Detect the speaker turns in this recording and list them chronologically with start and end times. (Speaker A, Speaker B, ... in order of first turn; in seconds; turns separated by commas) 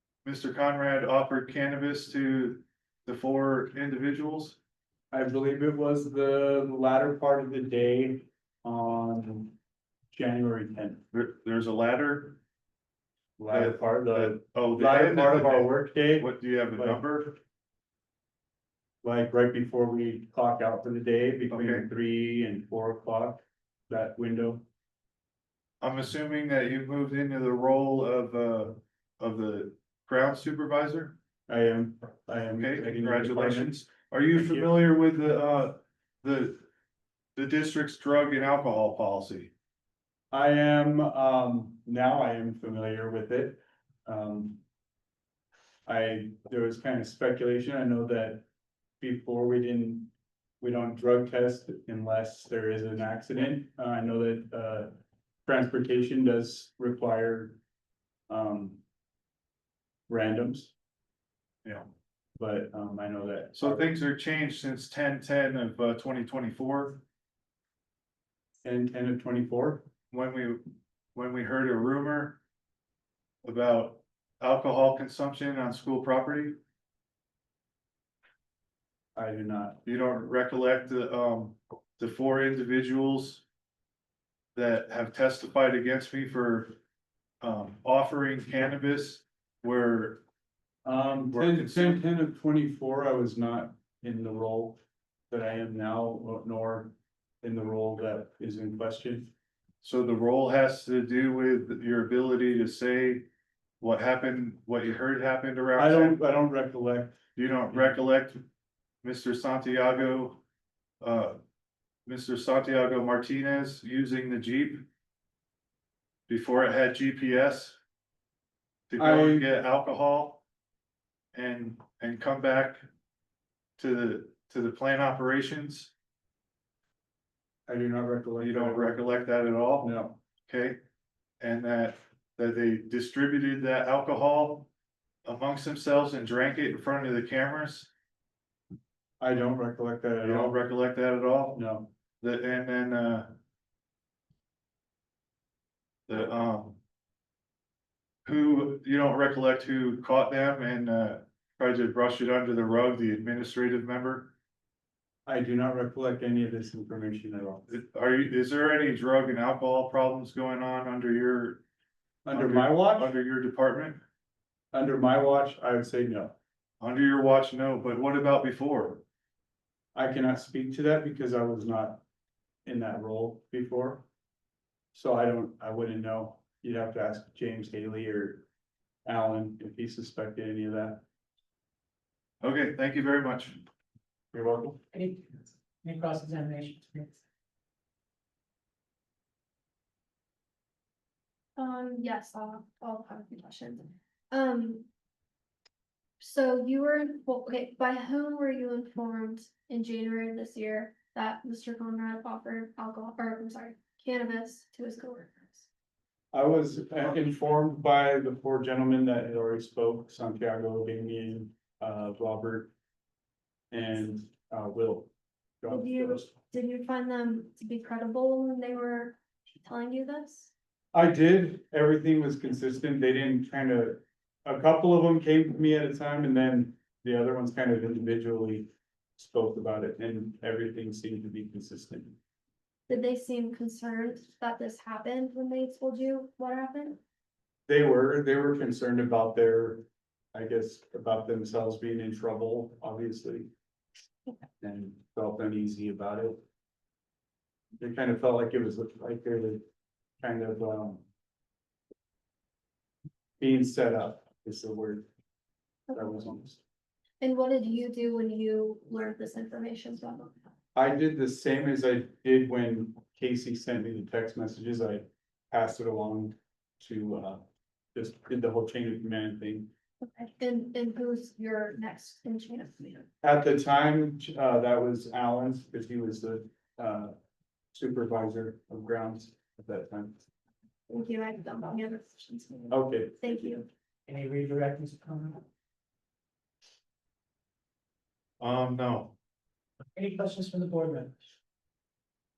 Speaker A: 0.2-4.6, Speaker B: 5.1-9.6, Speaker B: 10.1-11.0, Speaker A: 11.1-12.4, Speaker B: 13.4-17.0, Speaker A: 13.5-17.4, Speaker B: 19.0-24.6, Speaker A: 21.5-21.9, Speaker A: 25.8-31.2, Speaker B: 31.5-33.8, Speaker A: 32.6-36.6, Speaker B: 34.4-34.7, Speaker A: 37.4-39.5, Speaker B: 40.3-44.6, Speaker B: 45.9-48.5, Speaker B: 49.0-57.6, Speaker B: 58.3-58.8, Speaker B: 60.1-60.7, Speaker A: 61.6-61.9, Speaker B: 62.4-63.9, Speaker A: 63.5-67.0, Speaker B: 68.6-69.9, Speaker A: 70.1-72.4, Speaker A: 73.4-76.6, Speaker B: 79.2-79.8, Speaker A: 79.8-83.4, Speaker A: 84.5-86.8, Speaker A: 87.4-90.2, Speaker B: 90.8-99.3, Speaker A: 91.3-92.0, Speaker A: 99.8-103.3, Speaker A: 103.8-106.2, Speaker B: 105.8-107.2, Speaker A: 107.4-108.4, Speaker A: 109.0-110.4, Speaker A: 111.0-111.4, Speaker A: 112.1-114.8, Speaker A: 116.3-117.8, Speaker A: 118.9-120.4, Speaker B: 119.0-119.5, Speaker A: 121.3-122.8, Speaker A: 123.8-125.9, Speaker B: 127.7-129.0, Speaker A: 128.4-129.9, Speaker B: 129.8-130.2, Speaker A: 130.5-130.8, Speaker A: 131.4-134.7, Speaker A: 135.2-137.9, Speaker B: 139.2-140.6, Speaker A: 140.2-141.6, Speaker B: 141.5-141.9, Speaker A: 142.2-143.3, Speaker A: 146.1-146.8, Speaker A: 148.3-154.3, Speaker B: 155.3-157.7, Speaker A: 157.7-161.6, Speaker B: 162.2-163.1, Speaker A: 162.3-164.0, Speaker B: 164.7-166.4, Speaker A: 166.8-169.0, Speaker B: 169.9-172.0, Speaker B: 172.7-174.1, Speaker B: 174.9-178.5, Speaker B: 179.1-181.0, Speaker A: 182.4-183.7, Speaker B: 184.3-184.8, Speaker C: 184.9-187.2, Speaker D: 191.6-194.9, Speaker D: 196.2-205.7, Speaker B: 206.3-212.7, Speaker B: 213.7-215.1, Speaker B: 215.6-216.3, Speaker D: 215.7-220.5, Speaker B: 220.9-232.2, Speaker D: 232.9-237.0, Speaker B: 237.7-243.5, Speaker B: 244.6-246.4, Speaker B: 247.8-249.6, Speaker B: 250.2-251.0, Speaker B: 253.4-255.1, Speaker B: 255.9-256.6, Speaker D: 257.2-260.4, Speaker B: 260.8-269.7, Speaker D: 270.0-273.1, Speaker B: 273.2-277.1, Speaker B: 277.7-280.3, Speaker D: 280.9-283.7, Speaker B: 282.7-283.2, Speaker C: 284.1-285.4, Speaker A: 288.4-289.1, Speaker C: 290.0-291.1